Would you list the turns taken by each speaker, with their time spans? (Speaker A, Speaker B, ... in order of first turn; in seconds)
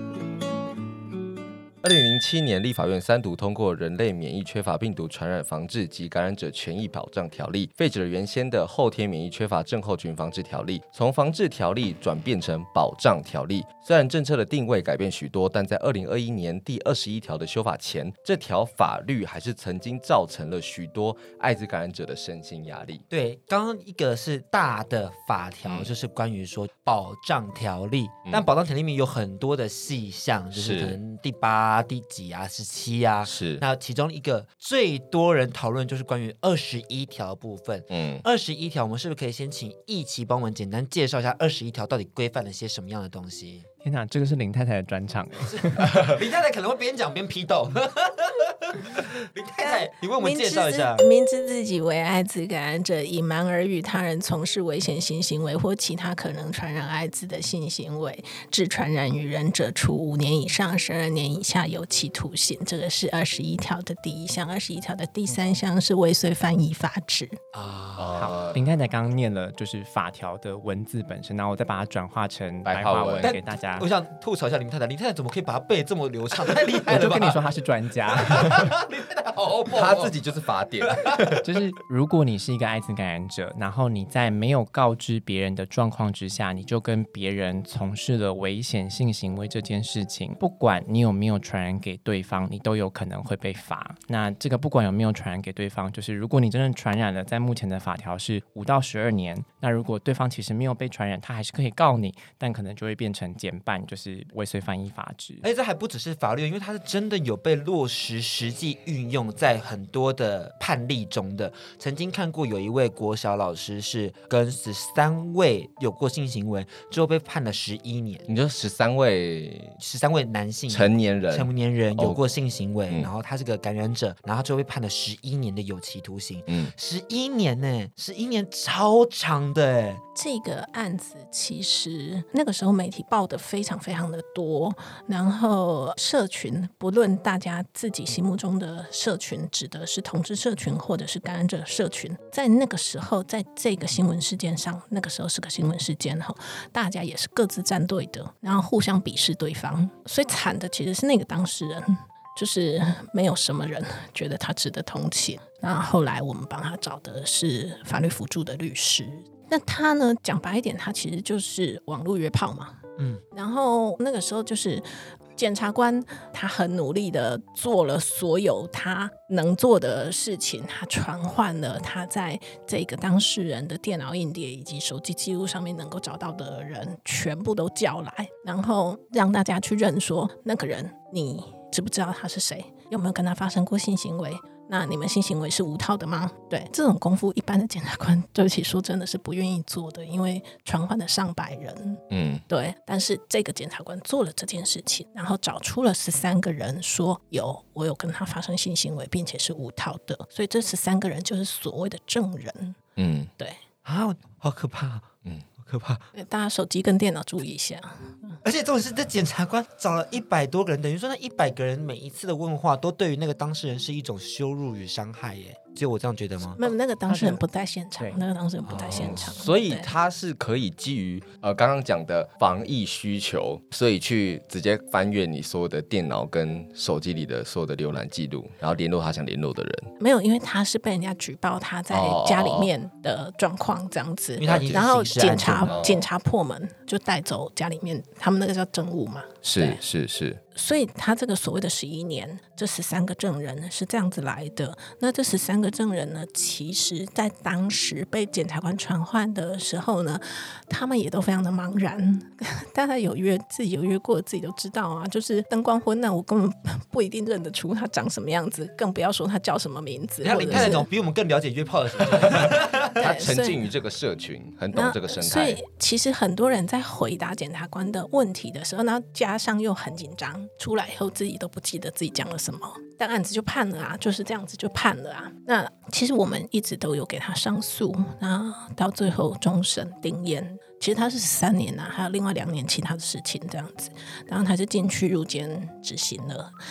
Speaker A: 1.8-23.0, 30.5-31.0, 33.2-33.6, 37.9-38.2, 68.0-68.6, 72.7-73.3, 79.7-81.4, 118.3-119.8, 120.7-122.2, 192.1-192.4, 203.0-203.3, 218.8-229.9, 231.9-232.7, 234.4-236.1, 239.4-240.4, 260.5-260.8, 262.1-265.6
Speaker B: 23.1-43.6, 45.4-51.0, 67.5-68.3, 73.2-77.4, 78.1-80.1, 80.8-81.1, 105.4-118.3, 119.8-130.0, 163.0-163.2, 203.8-206.1, 208.4-216.6, 218.7-219.2, 234.4-235.8, 260.2-262.9
Speaker C: 43.8-45.8, 68.1-73.9, 76.9-78.7, 81.4-105.4, 217.1-217.4
Speaker D: 49.6-67.4, 130.1-162.8, 163.3-202.8, 206.1-208.4, 216.6-219.9, 230.0-239.8, 240.5-260.9, 262.8-263.6, 264.7-286.5